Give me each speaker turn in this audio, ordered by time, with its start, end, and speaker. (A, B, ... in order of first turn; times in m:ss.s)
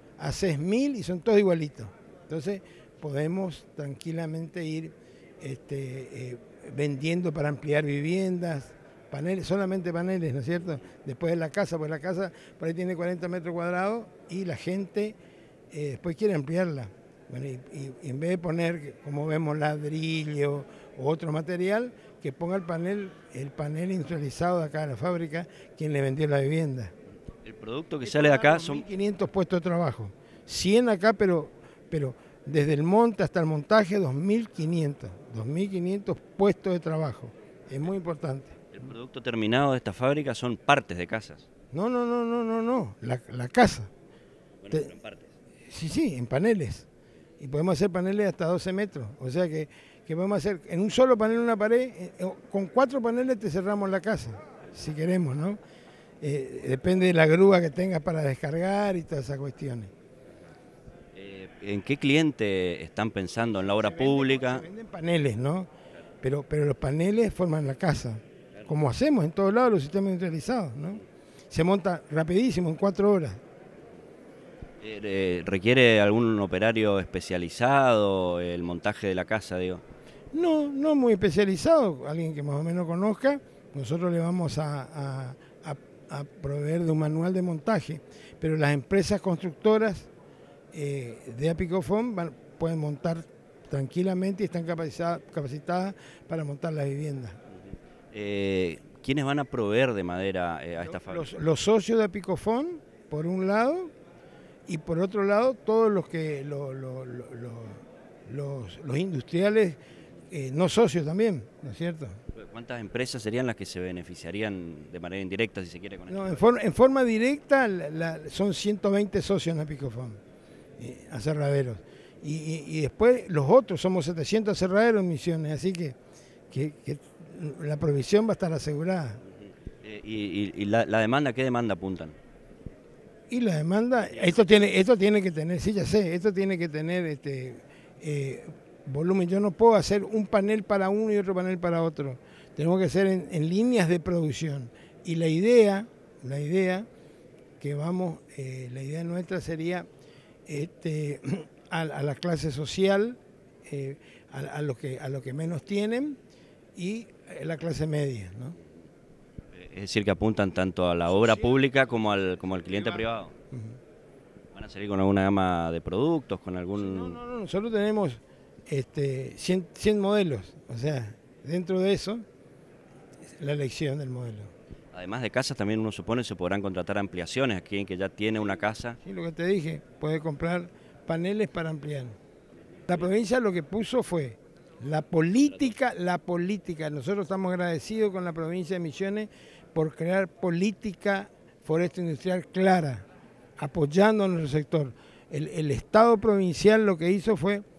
0:00.2-0:15.2 A
0:15.7-0:26.9 A
0:27.4-0:28.8 B
0:28.0-0:38.6 A
0:38.7-0:41.4 B
0:41.7-0:43.9 A
0:44.6-0:45.3 B
0:45.7-0:46.9 A
0:47.4-0:55.6 A
0:56.2-0:59.9 A
1:01.1-1:04.6 B
1:03.6-1:05.7 A
1:06.2-1:13.4 A
1:14.8-1:19.8 B
1:20.3-1:30.1 A
1:30.7-1:37.4 A
1:38.1-1:41.3 B
1:40.8-1:43.9 A
1:44.7-1:49.8 A
1:50.3-1:52.2 A
1:52.3-1:56.4 B
1:56.1-2:00.2 A
2:00.8-2:06.0 A
2:06.5-2:09.2 A
2:09.8-2:12.2 B
2:13.3-2:26.8 A
2:14.0-2:14.4 B
2:27.6-2:29.8 A
2:30.5-2:36.2 A
2:36.8-2:38.6 A
2:39.5-2:43.3 B
2:41.1-2:41.6 A
2:42.7-2:43.8 A
2:44.5-2:47.2 B
2:46.7-2:52.2 A
2:53.4-2:54.5 A
2:54.9-2:59.0 B
2:59.0-3:02.2 A
3:02.9-3:13.0 A
3:13.6-3:17.6 A